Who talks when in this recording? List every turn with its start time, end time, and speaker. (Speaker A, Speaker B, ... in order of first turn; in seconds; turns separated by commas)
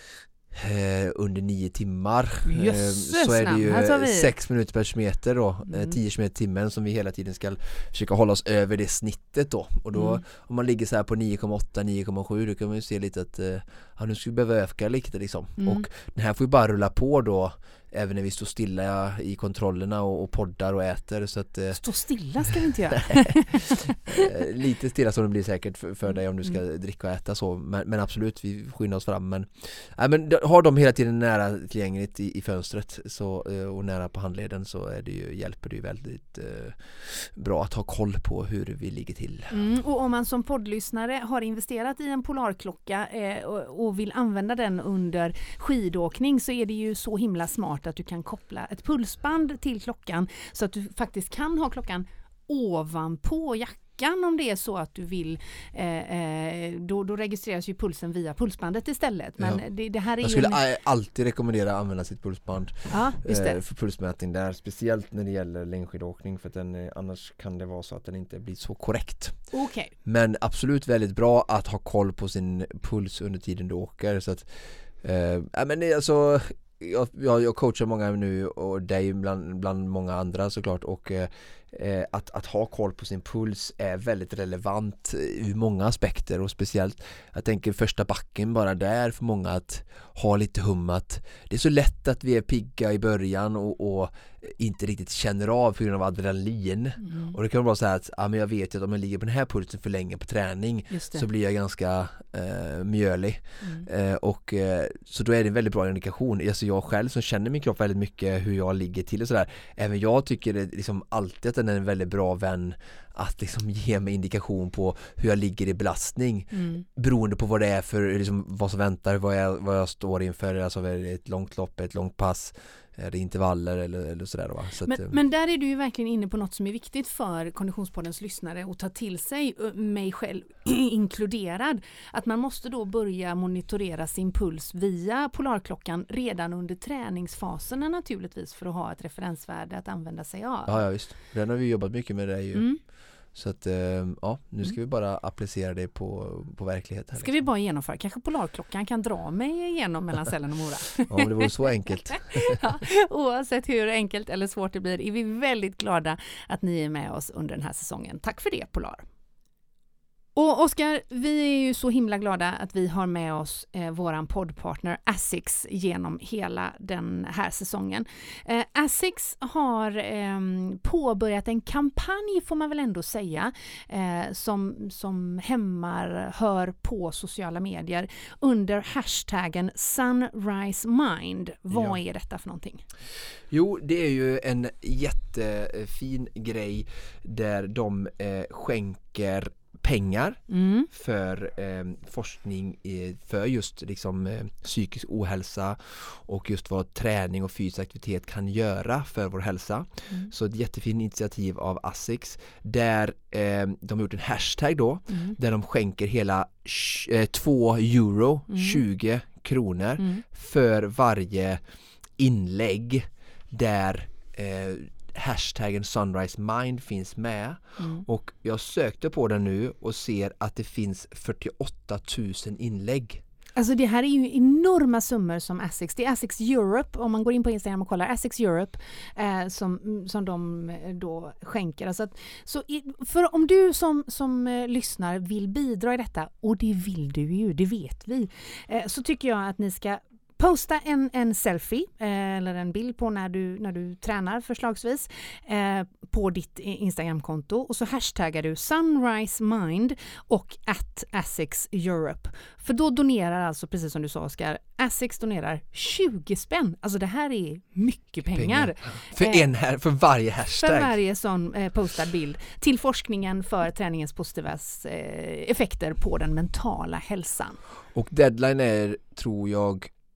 Speaker A: 0.5-21.8, Speaker B: 2.4-4.3, Speaker B: 5.7-6.0, Speaker B: 9.9-10.2, Speaker B: 15.6-15.8, Speaker B: 21.7-23.8, Speaker A: 24.1-39.5, Speaker B: 39.5-60.6, Speaker A: 59.4-59.6, Speaker A: 60.2-69.4, Speaker B: 62.9-63.6, Speaker B: 69.5-69.9, Speaker A: 70.0-125.2, Speaker B: 97.0-97.3, Speaker B: 100.9-101.2, Speaker B: 103.6-103.9, Speaker B: 116.5-116.8, Speaker B: 124.8-140.8, Speaker A: 140.7-147.4, Speaker B: 142.5-142.8, Speaker B: 147.1-151.5, Speaker A: 151.1-152.6, Speaker B: 152.3-159.0, Speaker B: 160.3-182.8, Speaker A: 183.5-211.6, Speaker B: 190.5-190.9, Speaker B: 208.5-208.8, Speaker A: 212.2-223.2, Speaker B: 223.5-259.4, Speaker A: 258.3-260.9, Speaker B: 260.6-267.6, Speaker A: 267.9-269.9